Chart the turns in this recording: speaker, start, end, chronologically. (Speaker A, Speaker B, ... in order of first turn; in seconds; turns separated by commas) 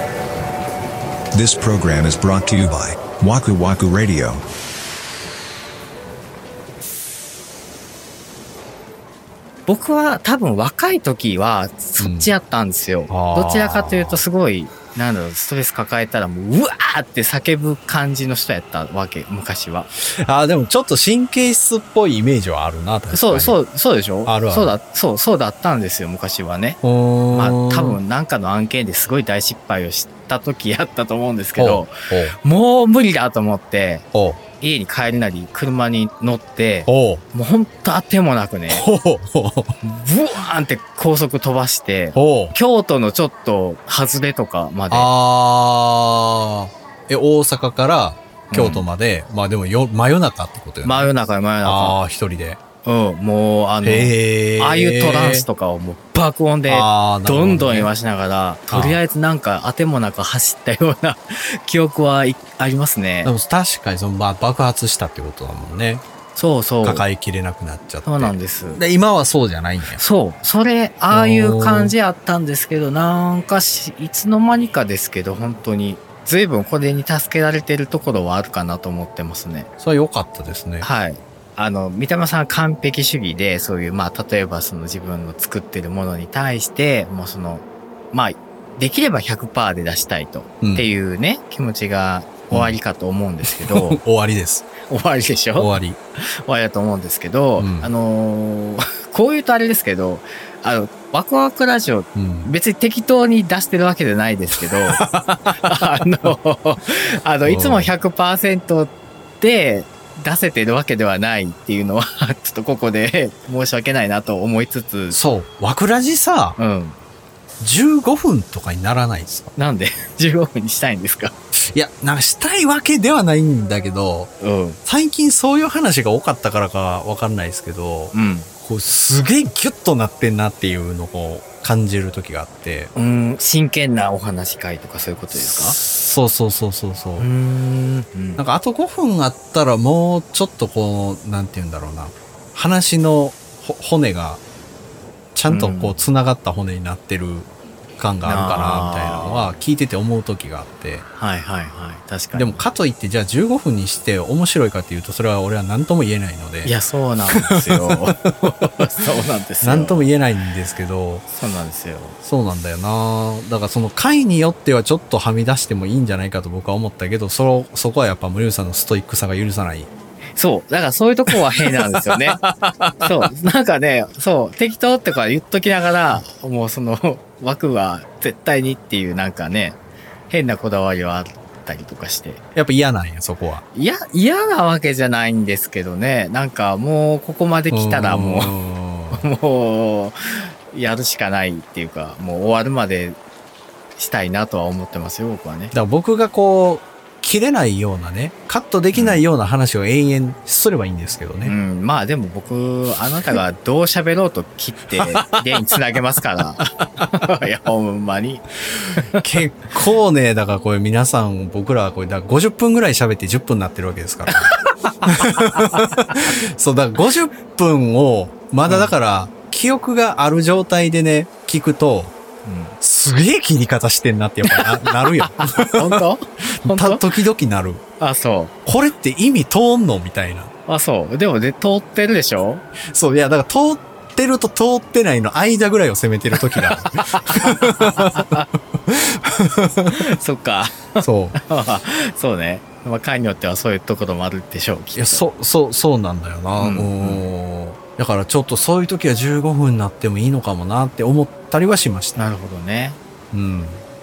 Speaker A: 1.3-4.4, Speaker B: 9.7-19.9, Speaker C: 12.0-12.3, Speaker C: 13.1-14.2, Speaker C: 20.0-23.6, Speaker B: 23.1-34.1, Speaker C: 24.3-24.8, Speaker C: 26.8-28.0, Speaker C: 31.6-32.4, Speaker C: 34.1-34.4, Speaker B: 34.6-38.9, Speaker C: 36.9-37.2, Speaker C: 38.7-39.7, Speaker B: 39.8-45.1, Speaker C: 42.1-42.6, Speaker C: 44.9-51.1, Speaker B: 48.5-48.9, Speaker B: 50.8-52.0, Speaker C: 51.6-52.6, Speaker B: 52.8-63.3, Speaker C: 53.8-55.5, Speaker C: 56.7-57.9, Speaker C: 58.7-59.0, Speaker C: 63.2-66.0, Speaker B: 66.3-67.1, Speaker C: 66.8-70.0, Speaker B: 68.0-68.8, Speaker B: 69.9-79.7, Speaker C: 71.1-72.0, Speaker C: 79.8-80.9, Speaker B: 80.8-94.0, Speaker C: 90.6-90.9, Speaker C: 92.5-92.8, Speaker C: 93.4-94.7, Speaker B: 94.9-95.8, Speaker C: 95.6-96.0, Speaker B: 96.5-115.2, Speaker C: 97.6-97.9, Speaker C: 102.2-102.5, Speaker C: 104.7-106.3, Speaker C: 107.5-107.9, Speaker C: 115.1-116.6, Speaker B: 116.6-117.0, Speaker C: 117.6-119.5, Speaker B: 119.6-121.3, Speaker C: 121.7-124.3, Speaker B: 124.4-124.8, Speaker C: 124.9-132.9, Speaker B: 128.1-128.5, Speaker B: 132.9-135.8, Speaker C: 135.3-137.3, Speaker B: 137.2-138.4, Speaker C: 138.4-144.4, Speaker C: 145.3-151.1, Speaker B: 145.5-146.0, Speaker B: 148.2-149.6, Speaker B: 151.1-152.7, Speaker C: 152.3-156.8, Speaker B: 156.7-160.1, Speaker C: 157.3-158.0, Speaker C: 159.6-161.3, Speaker B: 161.3-162.2, Speaker C: 162.2-169.9, Speaker B: 170.4-172.4, Speaker C: 171.3-173.2, Speaker B: 173.0-179.8, Speaker B: 180.3-182.4, Speaker C: 182.6-183.6, Speaker B: 183.7-188.6, Speaker C: 187.7-189.2, Speaker B: 189.1-193.2, Speaker B: 194.0-195.7, Speaker C: 195.7-201.5, Speaker B: 198.9-199.2, Speaker B: 201.4-209.3, Speaker C: 204.9-205.6, Speaker C: 209.2-214.5, Speaker B: 214.3-216.3, Speaker C: 215.0-222.1, Speaker B: 218.7-218.9, Speaker B: 222.4-222.8, Speaker C: 222.8-226.0, Speaker B: 224.4-227.1, Speaker C: 226.6-227.8, Speaker B: 228.0-228.5, Speaker C: 228.7-230.5, Speaker B: 230.7-232.7, Speaker C: 232.9-238.2, Speaker B: 236.3-238.5, Speaker C: 238.9-240.0, Speaker B: 239.9-245.2, Speaker C: 241.0-241.4, Speaker C: 244.9-252.2, Speaker B: 246.6-247.2, Speaker B: 252.2-253.0, Speaker C: 253.3-253.8